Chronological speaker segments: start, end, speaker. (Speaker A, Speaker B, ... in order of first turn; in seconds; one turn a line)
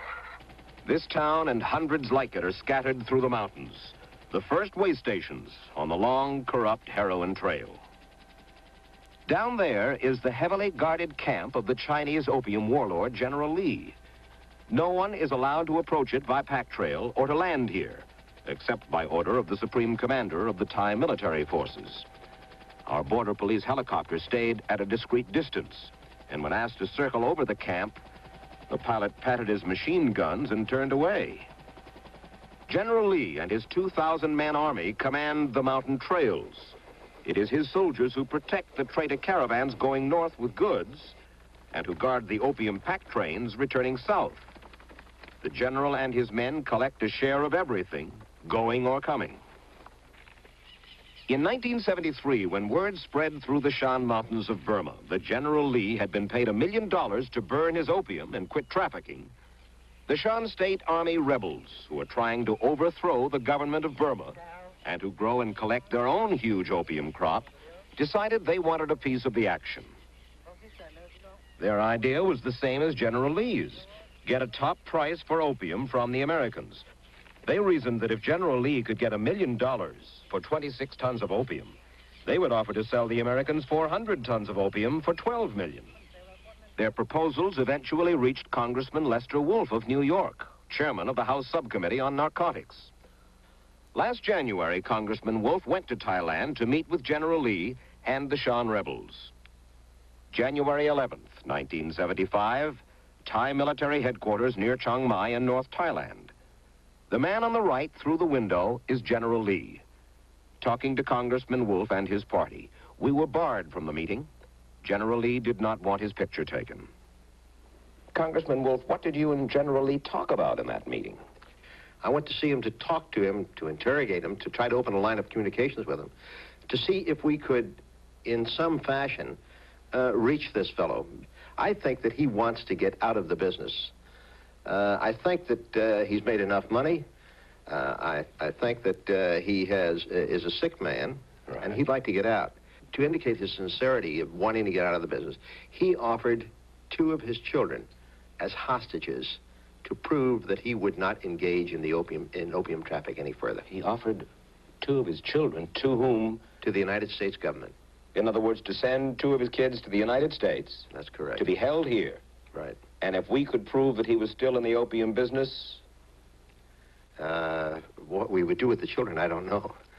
Speaker A: 0.8-7.8
Speaker A: 9.3-14.0
Speaker A: 14.7-22.1
Speaker A: 22.9-28.0
Speaker A: 28.7-31.5
Speaker A: 32.7-41.1
Speaker A: 41.7-44.5
Speaker A: 45.4-49.4
Speaker A: 51.3-59.3
Speaker A: 60.1-69.9
Speaker A: 71.6-76.8
Speaker A: 77.4-85.9
Speaker A: 86.8-92.9
Speaker A: 93.9-99.3
Speaker A: 100.3-106.3
Speaker A: 107.1-109.8
Speaker A: 110.6-114.3
Speaker A: 114.8-116.9
Speaker A: 118.1-121.2
Speaker B: 122.0-126.1
Speaker B: 126.7-129.4
Speaker B: 129.9-133.9
Speaker B: 134.6-137.1
Speaker B: 137.7-147.9
Speaker A: 141.5-141.7
Speaker B: 148.4-153.6
Speaker A: 153.7-154.3
Speaker A: 154.8-156.4
Speaker B: 156.6-157.7
Speaker A: 158.1-162.2
Speaker B: 160.9-161.4
Speaker B: 162.5-162.8
Speaker A: 163.0-165.8
Speaker B: 167.2-169.8